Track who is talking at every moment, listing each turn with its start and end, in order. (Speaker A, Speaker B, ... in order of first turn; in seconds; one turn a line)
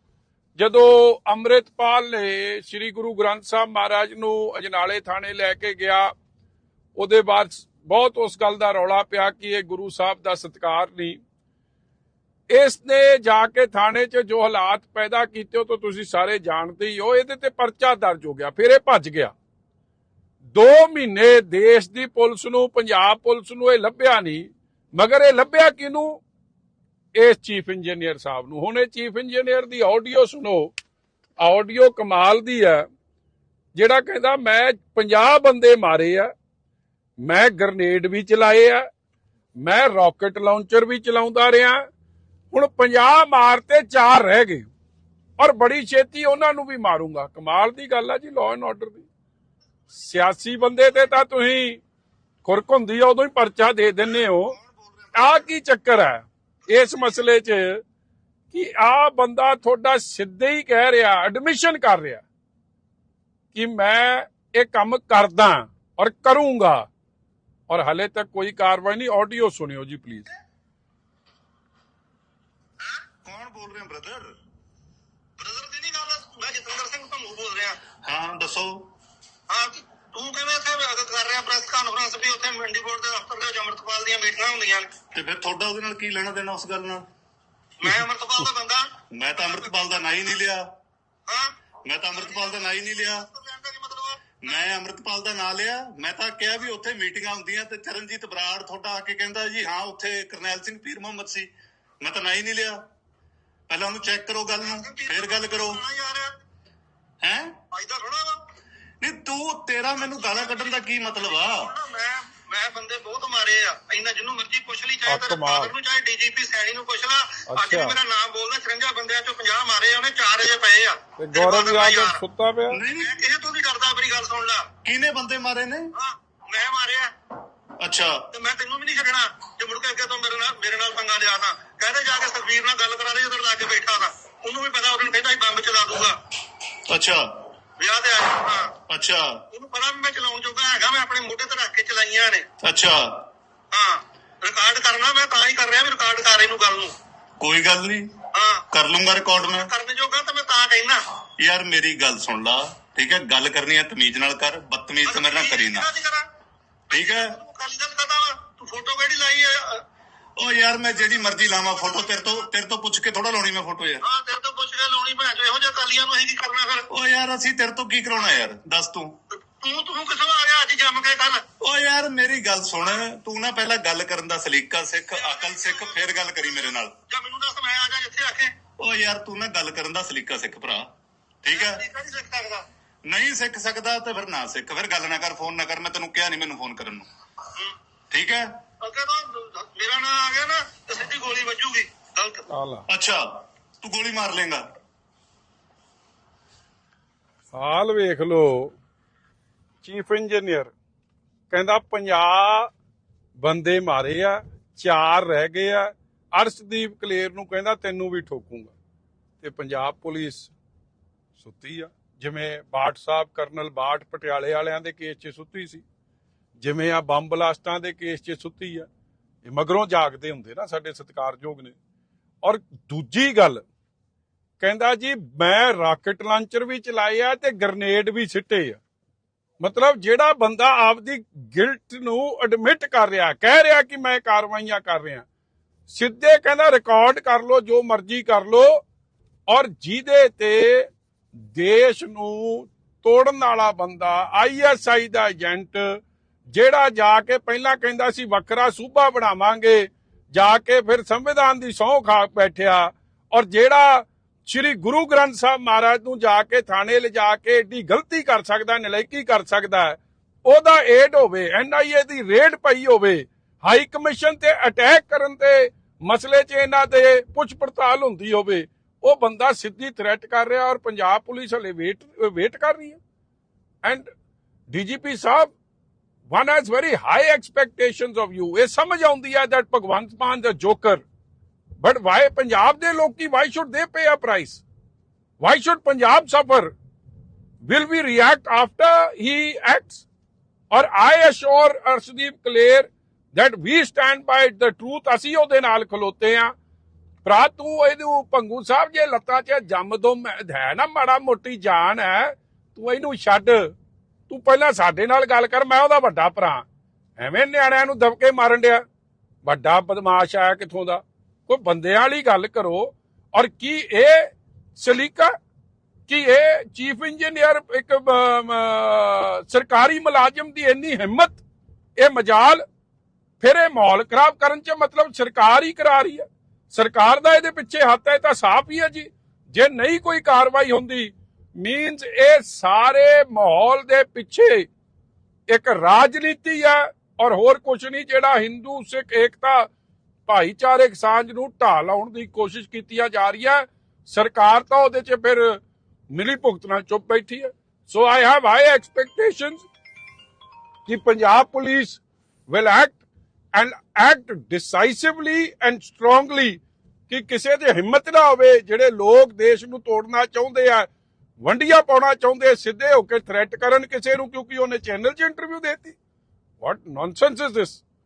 Speaker A: 0.6-6.1
Speaker A: 7.0-11.2
Speaker A: 12.5-19.3
Speaker A: 20.5-26.2
Speaker A: 27.1-30.7
Speaker A: 31.4-32.9
Speaker A: 33.7-36.3
Speaker A: 37.2-38.9
Speaker A: 39.6-41.8
Speaker A: 42.5-44.7
Speaker A: 45.4-49.0
Speaker A: 49.9-51.8
Speaker A: 52.4-54.5
Speaker B: 54.6-55.4
Speaker A: 55.1-57.8
Speaker A: 58.5-62.2
Speaker A: 63.5-66.9
Speaker A: 67.7-70.3
Speaker B: 73.2-74.3
Speaker C: 75.4-77.8
Speaker B: 78.0-78.9
Speaker C: 79.5-84.9
Speaker B: 85.1-87.0
Speaker C: 87.8-89.7
Speaker B: 89.1-90.6
Speaker B: 91.9-93.3
Speaker C: 92.1-94.5
Speaker B: 94.4-101.5
Speaker B: 102.0-102.8
Speaker B: 103.7-105.8
Speaker C: 104.6-106.3
Speaker B: 107.2-107.5
Speaker C: 107.7-108.5
Speaker B: 109.0-111.7
Speaker C: 110.0-122.2
Speaker A: 115.0-115.7
Speaker A: 117.5-118.0
Speaker A: 121.2-122.8
Speaker B: 122.7-123.1
Speaker C: 123.0-124.7
Speaker B: 124.8-125.9
Speaker C: 126.0-127.1
Speaker B: 127.8-128.2
Speaker C: 128.3-136.2
Speaker B: 136.9-137.2
Speaker C: 137.8-138.7
Speaker B: 138.9-139.2
Speaker C: 139.5-142.4
Speaker B: 142.6-143.2
Speaker C: 143.7-146.9
Speaker B: 147.4-148.0
Speaker C: 148.3-148.6
Speaker B: 148.7-149.7
Speaker C: 149.4-151.0
Speaker B: 151.4-155.8
Speaker C: 155.1-156.2
Speaker C: 156.9-159.8
Speaker B: 156.9-157.3
Speaker B: 160.4-164.0
Speaker C: 161.0-162.4
Speaker C: 164.0-166.8
Speaker B: 166.9-169.1
Speaker C: 169.3-171.4
Speaker B: 171.6-176.9
Speaker C: 175.2-178.5
Speaker B: 178.8-180.8
Speaker B: 181.4-181.8
Speaker C: 181.5-182.6
Speaker B: 183.1-187.1
Speaker B: 188.1-188.5
Speaker C: 188.8-192.4
Speaker A: 192.5-192.8
Speaker B: 192.9-193.2
Speaker B: 193.8-194.6
Speaker A: 197.5-198.7
Speaker A: 199.8-200.7
Speaker A: 201.5-202.7
Speaker A: 203.4-208.7
Speaker A: 209.4-210.5
Speaker A: 211.4-215.8
Speaker A: 216.6-218.9
Speaker A: 219.4-221.7
Speaker A: 222.4-223.6
Speaker A: 224.6-228.8
Speaker A: 229.6-235.2
Speaker A: 235.9-238.7
Speaker A: 239.5-240.9
Speaker A: 241.5-246.0
Speaker A: 246.5-273.0
Speaker A: 273.8-274.1
Speaker A: 274.7-275.5
Speaker A: 276.3-281.0
Speaker A: 281.8-284.6
Speaker A: 285.4-286.7
Speaker A: 287.6-290.0
Speaker A: 290.7-296.5
Speaker A: 297.2-303.7
Speaker A: 304.3-306.6
Speaker A: 307.2-308.8
Speaker A: 309.4-315.3
Speaker A: 316.1-321.4
Speaker A: 322.0-322.6
Speaker A: 323.4-334.7
Speaker A: 335.5-339.7
Speaker A: 340.3-345.6
Speaker A: 346.1-349.6
Speaker A: 350.9-353.0
Speaker A: 353.5-360.9
Speaker A: 361.4-365.9
Speaker A: 366.6-367.8